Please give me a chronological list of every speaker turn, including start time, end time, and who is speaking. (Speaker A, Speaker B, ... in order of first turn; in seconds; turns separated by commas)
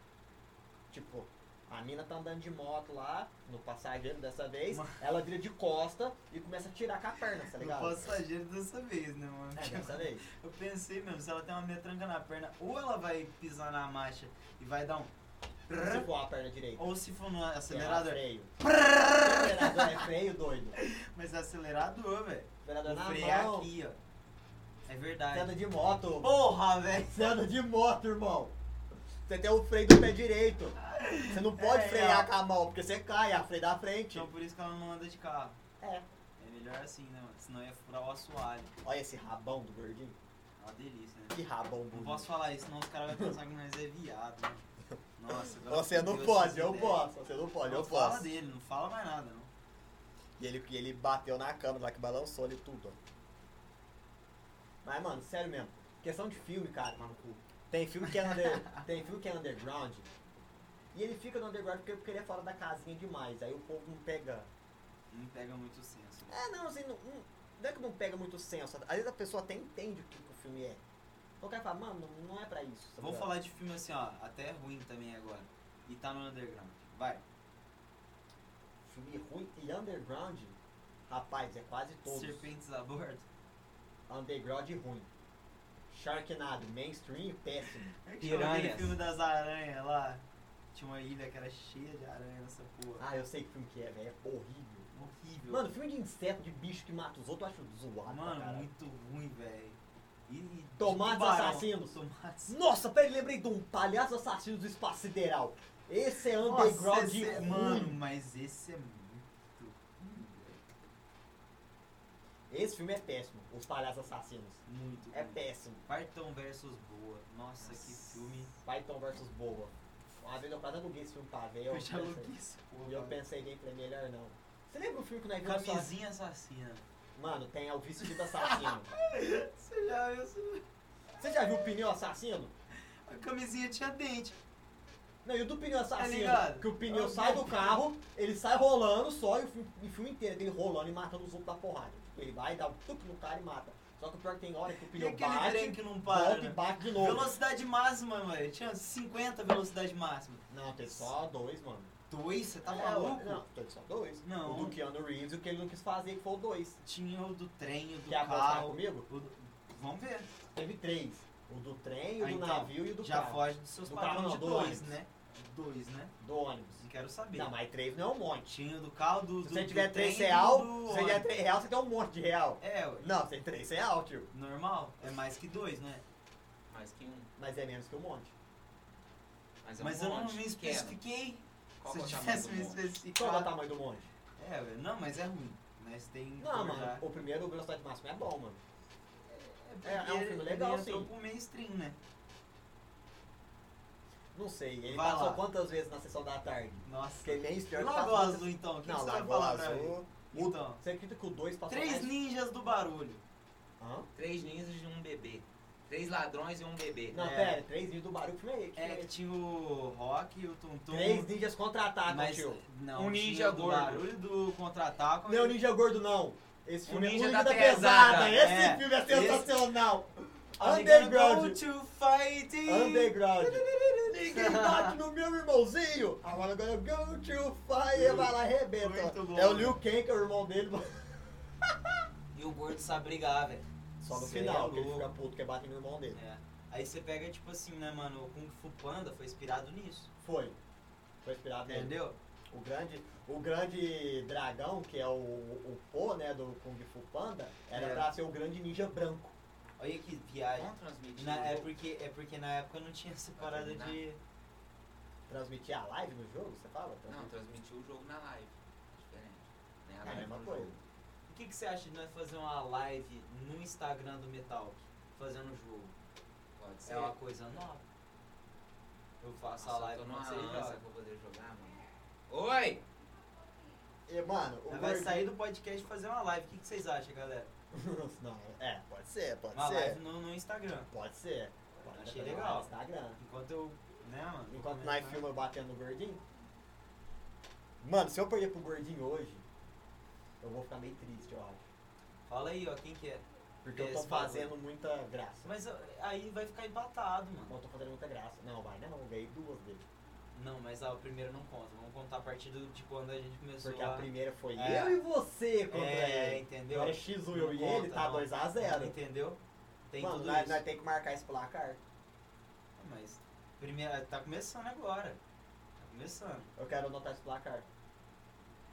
Speaker A: 0.9-8.2, Speaker B: 4.7-5.0, Speaker B: 7.5-15.1, Speaker A: 9.5-10.2, Speaker B: 15.7-16.1, Speaker A: 15.7-17.0, Speaker B: 16.8-20.1, Speaker A: 17.7-18.5, Speaker A: 19.1-20.8, Speaker B: 20.7-24.0, Speaker A: 22.6-23.7, Speaker B: 24.9-25.5, Speaker A: 25.3-26.4, Speaker B: 26.2-27.4, Speaker A: 27.1-28.5, Speaker A: 29.3-34.3, Speaker B: 30.8-32.3, Speaker B: 34.1-35.6, Speaker A: 35.8-36.0, Speaker B: 36.4-38.7, Speaker A: 38.8-40.2, Speaker B: 40.6-41.4, Speaker A: 41.3-42.3, Speaker B: 41.9-44.6, Speaker B: 45.1-47.0, Speaker A: 45.5-48.3, Speaker B: 47.6-49.5, Speaker A: 50.4-53.0, Speaker A: 54.8-60.1, Speaker B: 58.1-58.8, Speaker A: 60.9-64.5, Speaker B: 65.1-66.4, Speaker A: 66.3-70.8, Speaker A: 71.4-73.3, Speaker B: 73.0-77.2, Speaker A: 78.8-80.5, Speaker A: 81.1-82.5, Speaker B: 82.0-83.2, Speaker A: 84.1-85.1, Speaker A: 85.9-88.9, Speaker B: 88.0-90.2, Speaker C: 88.3-88.8, Speaker B: 90.7-93.0, Speaker A: 93.0-94.9, Speaker B: 94.9-95.7, Speaker A: 95.5-98.7, Speaker B: 98.0-102.6, Speaker A: 100.8-108.0, Speaker B: 106.4-110.6, Speaker A: 112.5-115.8, Speaker B: 114.7-118.5, Speaker A: 117.7-118.1, Speaker A: 118.6-125.9, Speaker B: 121.7-123.2, Speaker B: 125.4-126.8, Speaker A: 127.2-128.9, Speaker B: 128.0-130.6, Speaker A: 131.2-132.5, Speaker B: 133.0-134.4, Speaker A: 135.2-147.3, Speaker B: 136.0-137.8, Speaker B: 144.9-151.1, Speaker A: 150.5-151.9, Speaker B: 152.1-153.4, Speaker A: 152.6-156.8, Speaker B: 154.2-154.8, Speaker B: 156.8-160.3, Speaker A: 158.1-159.1, Speaker A: 160.5-164.9, Speaker B: 162.2-166.1, Speaker A: 166.2-168.5, Speaker B: 166.8-167.5, Speaker B: 168.5-171.3, Speaker A: 169.4-174.3, Speaker B: 172.6-173.1, Speaker B: 174.3-176.0, Speaker C: 176.7-177.3, Speaker A: 177.4-178.3, Speaker C: 179.6-181.0, Speaker B: 179.8-183.5, Speaker C: 181.8-183.0, Speaker A: 183.1-184.1, Speaker B: 184.4-187.1, Speaker A: 186.4-188.6, Speaker B: 189.3-192.0, Speaker A: 189.8-191.1, Speaker A: 194.3-202.1, Speaker B: 194.8-195.4, Speaker B: 196.8-200.8, Speaker B: 201.7-203.2, Speaker A: 203.8-204.1, Speaker C: 204.1-207.2, Speaker A: 207.1-209.1, Speaker B: 207.1-207.6, Speaker B: 208.8-211.3, Speaker A: 210.9-212.6, Speaker B: 212.1-215.6, Speaker C: 212.9-214.1, Speaker A: 215.3-221.6, Speaker C: 216.9-218.4, Speaker B: 218.1-219.5, Speaker B: 220.6-225.0, Speaker A: 222.7-231.4, Speaker B: 227.9-229.8, Speaker B: 232.3-235.1, Speaker A: 234.0-236.2, Speaker B: 236.1-240.1, Speaker A: 240.2-240.6, Speaker A: 241.2-241.9, Speaker B: 241.7-242.2, Speaker A: 242.5-249.3, Speaker B: 247.7-248.1, Speaker B: 249.8-254.2, Speaker C: 250.6-251.7, Speaker C: 253.4-254.0, Speaker A: 255.3-257.3, Speaker C: 257.1-260.8, Speaker A: 260.0-260.7, Speaker B: 261.3-265.9, Speaker C: 266.6-267.1, Speaker B: 266.8-267.8, Speaker B: 269.2-270.8, Speaker C: 269.6-272.8, Speaker A: 274.1-275.3, Speaker B: 274.7-277.5, Speaker A: 277.7-280.0, Speaker B: 279.5-280.9, Speaker A: 280.9-283.2, Speaker B: 281.9-285.3, Speaker A: 284.5-286.2, Speaker A: 287.8-289.4, Speaker A: 290.4-291.6, Speaker B: 292.3-294.5, Speaker A: 293.6-295.5, Speaker B: 295.4-297.6, Speaker A: 297.5-299.8, Speaker B: 300.3-305.0, Speaker A: 303.6-308.9, Speaker B: 305.7-310.6, Speaker A: 310.0-311.8, Speaker B: 312.8-315.2, Speaker B: 315.8-316.5, Speaker A: 316.6-317.6